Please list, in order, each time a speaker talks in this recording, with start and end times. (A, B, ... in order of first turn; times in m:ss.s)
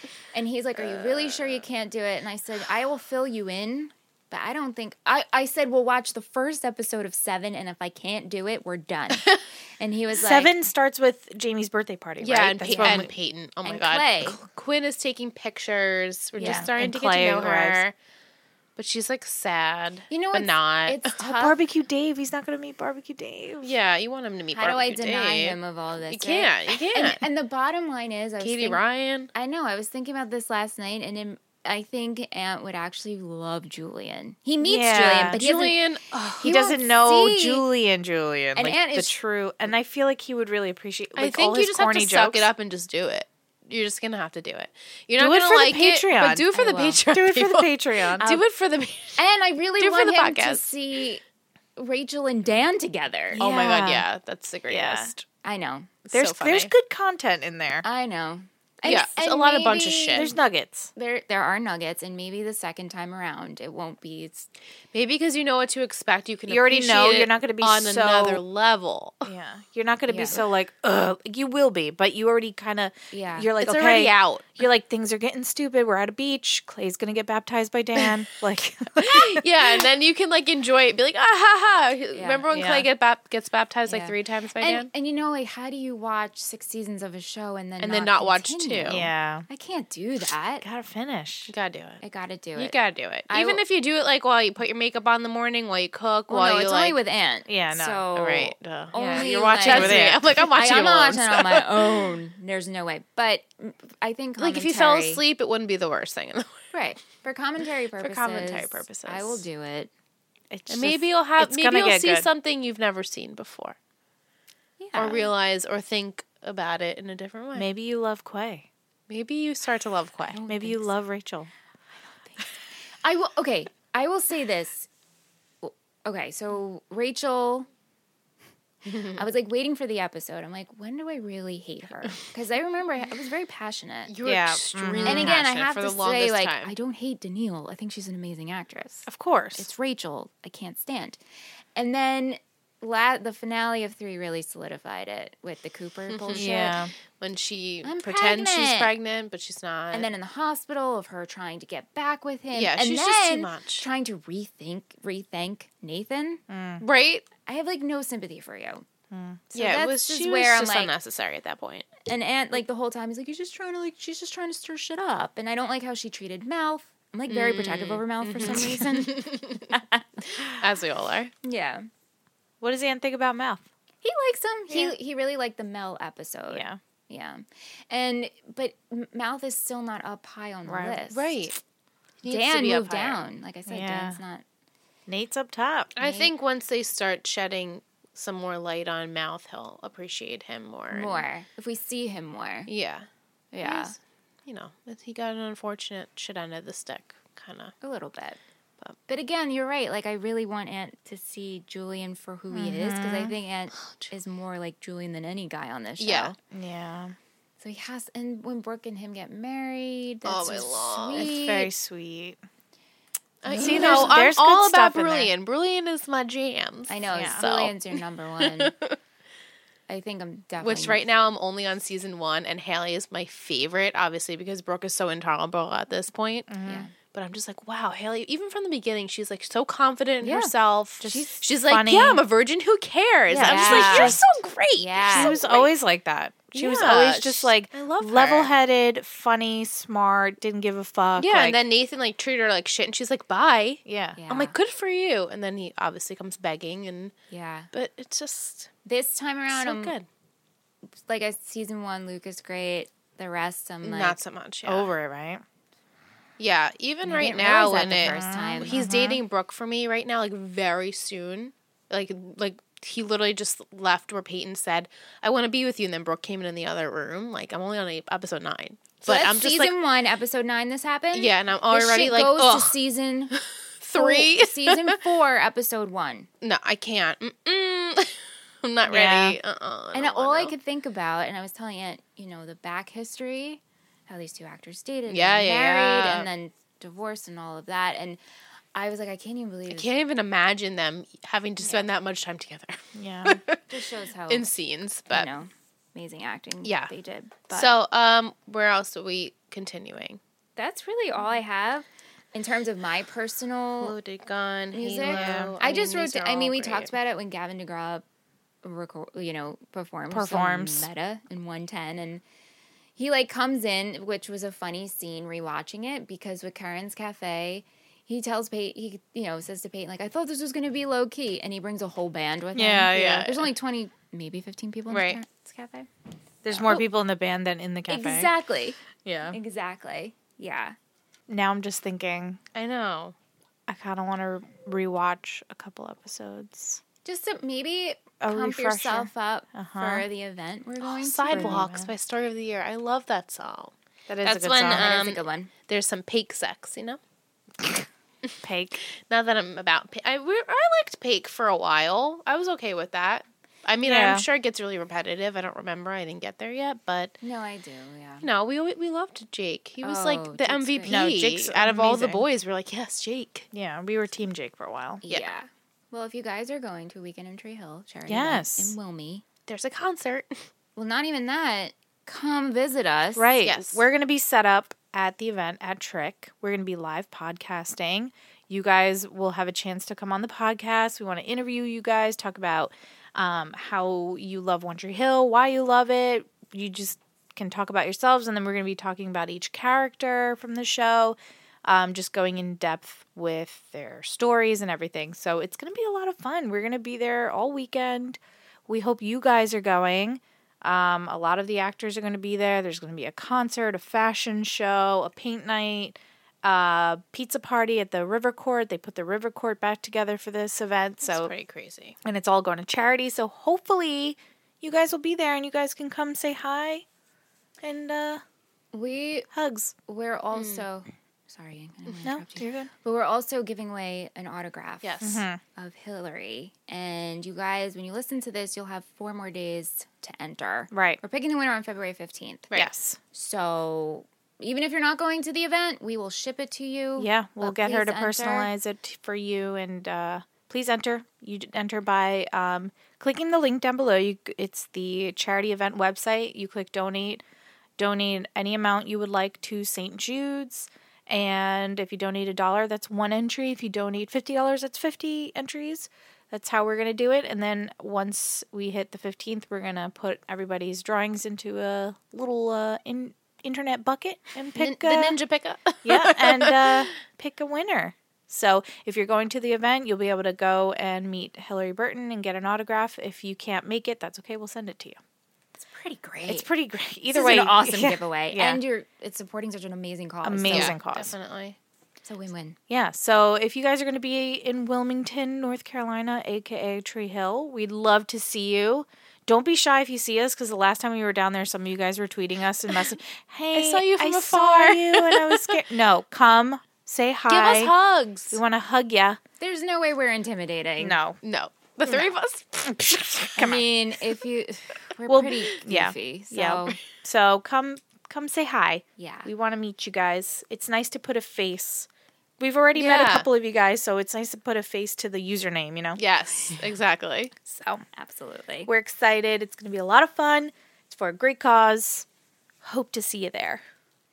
0:00.3-0:10.6 A
0:00.8-0:01.6 B
0:10.1-0:13.1 C
0:12.2-0:17.9 B
0:12.6-0:13.1 A
0:13.6-0:14.4 A
0:16.4-0:17.8 C
0:16.4-0:16.7 A
0:18.8-0:21.1 B
0:20.1-0:21.6 A
0:21.2-0:23.7 C
0:23.6-0:25.6 B
0:24.5-0:28.8 A
0:26.1-0:27.2 B
0:28.4-0:29.3 B
0:29.3-0:35.8 A
0:34.6-0:35.4 C
0:35.2-0:36.4 B
0:36.4-0:37.6 A
0:36.4-0:42.5 C
0:38.5-0:39.1 A
0:41.2-0:49.2 B
0:45.2-0:46.5 C
0:46.5-0:47.0 A
0:47.1-0:48.4 C
0:49.2-0:51.2 A
0:49.8-0:50.7 B
0:51.8-0:53.4 A
0:53.3-0:54.0 C
0:53.4-0:55.2 B
0:54.7-0:55.1 C
0:55.4-0:55.9 A
0:56.0-0:56.7 B
0:56.1-0:57.8 C
0:57.8-1:00.4 A
0:58.8-1:00.3 B
1:00.2-1:00.9 C
1:01.0-1:04.5 A
1:04.9-1:09.3 B
1:06.5-1:08.4 C
1:09.2-1:19.4 C
1:10.1-1:10.4 A
1:13.1-1:13.5 A
1:13.6-1:14.6 B
1:19.0-1:24.9 B
1:22.1-1:22.4 A
1:22.5-1:22.9 C
1:23.9-1:30.6 A
1:27.8-1:29.1 B
1:28.9-1:29.4 C
1:30.6-1:31.5 C
1:31.5-1:32.0 B
1:32.0-1:32.7 A
1:32.5-1:37.0 B
1:33.3-1:33.6 A
1:36.3-1:45.2 A
1:37.5-1:38.0 C
1:38.1-1:42.1 B
1:39.6-1:40.2 C
1:44.4-1:46.6 B
1:46.7-1:49.9 A
1:48.0-1:49.4 B
1:50.5-1:52.3 C
1:50.7-1:53.8 B
1:54.8-1:55.3 A
1:54.9-1:57.7 B
1:57.5-1:58.7 C
1:59.1-2:00.4 B
2:00.3-2:00.9 A
2:00.5-2:01.5 C
2:03.0-2:04.9 A
2:05.6-2:07.7 A
2:08.9-2:09.2 B
2:08.9-2:14.1 A
2:14.1-2:16.7 B
2:14.2-2:15.4 C
2:15.0-2:21.2 A
2:19.1-2:19.7 C
2:21.7-2:26.8 A
2:26.1-2:30.1 B
2:26.4-2:26.9 C
2:27.8-2:28.9 A
2:29.9-2:36.4 A
2:32.5-2:33.9 B
2:36.5-2:36.8 C
2:36.8-2:37.3 B
2:37.4-2:38.9 A
2:39.1-2:39.4 C
2:39.5-2:40.9 A
2:39.5-2:41.9 B
2:42.0-2:50.0 A
2:47.3-2:49.8 B
2:50.3-2:51.3 B
2:51.4-2:51.9 A
2:52.6-2:53.6 C
2:54.0-3:01.4 A
2:54.7-2:54.9 B
2:56.5-2:56.8 C
3:00.6-3:01.0 C
3:01.1-3:01.6 B
3:02.2-3:03.2 B
3:02.3-3:04.4 A
3:03.7-3:04.2 C
3:05.1-3:05.9 C
3:05.9-3:11.2 B
3:06.0-3:06.3 A
3:10.9-3:12.7 A
3:12.7-3:13.1 B
3:13.5-3:13.9 A
3:13.6-3:17.7 B
3:17.8-3:18.4 A
3:19.1-3:26.4 A
3:22.5-3:23.3 C
3:23.7-3:24.1 B
3:26.0-3:26.3 B
3:26.5-3:27.1 C
3:27.6-3:31.7 A
3:30.2-3:31.4 B
3:31.2-3:32.4 C
3:33.4-3:39.0 B
3:33.5-3:34.1 A
3:33.5-3:35.3 C
3:36.9-3:38.7 A
3:37.1-3:37.4 C
3:39.9-3:41.0 A
3:40.6-3:46.5 B
3:46.5-3:46.9 C
3:46.6-3:46.9 A
3:47.0-3:55.7 B
3:50.2-3:50.5 A
3:51.0-3:52.2 C
3:53.3-3:54.2 C
3:53.4-3:54.2 A
3:54.8-3:55.4 A
3:55.1-4:01.6 C
3:56.5-3:58.5 B
4:01.2-4:07.1 B
4:03.8-4:04.2 C
4:04.2-4:04.5 A
4:07.3-4:07.7 A
4:07.7-4:08.7 B
4:08.9-4:09.9 A
4:09.5-4:10.0 B
4:11.0-4:14.2 A
4:13.8-4:14.9 B
4:14.6-4:15.4 C
4:16.4-4:29.7 B
4:17.0-4:18.8 A
4:17.8-4:19.2 C
4:29.0-4:33.3 A
4:31.1-4:32.8 B
4:33.4-4:35.0 B
4:33.9-4:36.3 A
4:36.4-4:40.5 B
4:38.9-4:39.4 C
4:39.9-4:48.2 A
4:45.1-4:46.3 B
4:48.7-4:49.9 A
4:49.7-4:53.6 B
4:51.6-4:51.9 A
4:52.9-4:53.4 C
4:53.7-4:54.5 A
4:54.3-4:55.3 B
4:55.1-4:57.7 A
4:56.6-4:56.9 B
4:57.5-5:00.2 B
5:00.6-5:04.0 A
5:03.8-5:06.9 B
5:04.7-5:08.0 A
5:05.0-5:05.5 C
5:08.6-5:12.2 A
5:10.1-5:10.9 C
5:13.0-5:25.9 A
5:22.5-5:23.3 C
5:22.9-5:23.4 B
5:24.9-5:25.2 B
5:26.4-5:28.3 C
5:26.5-5:26.8 A
5:27.9-5:28.8 A
5:29.0-5:29.4 C
5:29.3-5:30.8 A
5:31.3-5:32.4 C
5:32.5-5:33.1 B
5:33.7-5:36.8 C
5:37.0-5:41.7 A
5:38.2-5:40.0 C
5:40.8-5:47.0 B
5:41.3-5:41.9 C
5:44.2-5:44.9 C
5:44.6-5:45.5 A
5:48.4-5:48.8 C
5:48.9-5:57.2 B
5:53.8-5:54.2 C
5:57.2-5:58.3 A
5:58.2-6:03.4 B
5:59.8-6:01.0 A
6:00.8-6:02.2 C
6:03.5-6:05.0 C
6:05.0-6:09.2 A
6:08.1-6:08.7 C
6:09.5-6:10.5 B
6:10.8-6:13.3 A
6:13.2-6:51.3 C
6:13.4-6:13.8 B
6:51.0-6:52.0 B
6:52.0-6:56.8 C
6:57.6-6:58.2 C
6:58.7-6:59.3 A
6:59.3-6:59.7 C
6:59.9-7:12.5 A
7:00.3-7:00.6 B
7:02.0-7:02.7 C
7:04.8-7:05.2 B
7:05.0-7:05.4 C
7:10.7-7:11.0 C
7:12.5-7:13.0 C
7:13.1-7:18.5 A
7:17.0-7:27.2 C
7:27.8-7:45.2 C
7:44.6-7:46.9 B
7:45.8-7:55.0 C
7:55.6-7:56.5 A
7:56.3-7:58.6 C
7:57.1-8:00.8 A
8:00.2-8:01.1 C
8:00.5-8:01.6 B
8:02.0-8:02.6 A
8:02.7-8:17.7 C
8:13.5-8:15.6 B
8:17.3-8:18.4 B
8:18.3-8:19.2 C
8:19.4-8:21.0 A
8:20.8-8:21.2 C
8:21.2-8:23.3 B
8:22.7-8:23.7 C
8:23.4-8:26.8 A
8:25.1-8:31.9 C
8:29.0-8:29.3 A
8:32.4-8:36.0 C
8:32.7-8:33.3 B
8:36.0-8:37.3 B
8:37.5-8:37.8 C
8:37.9-8:38.7 A
8:38.7-8:42.0 C
8:42.6-8:43.6 C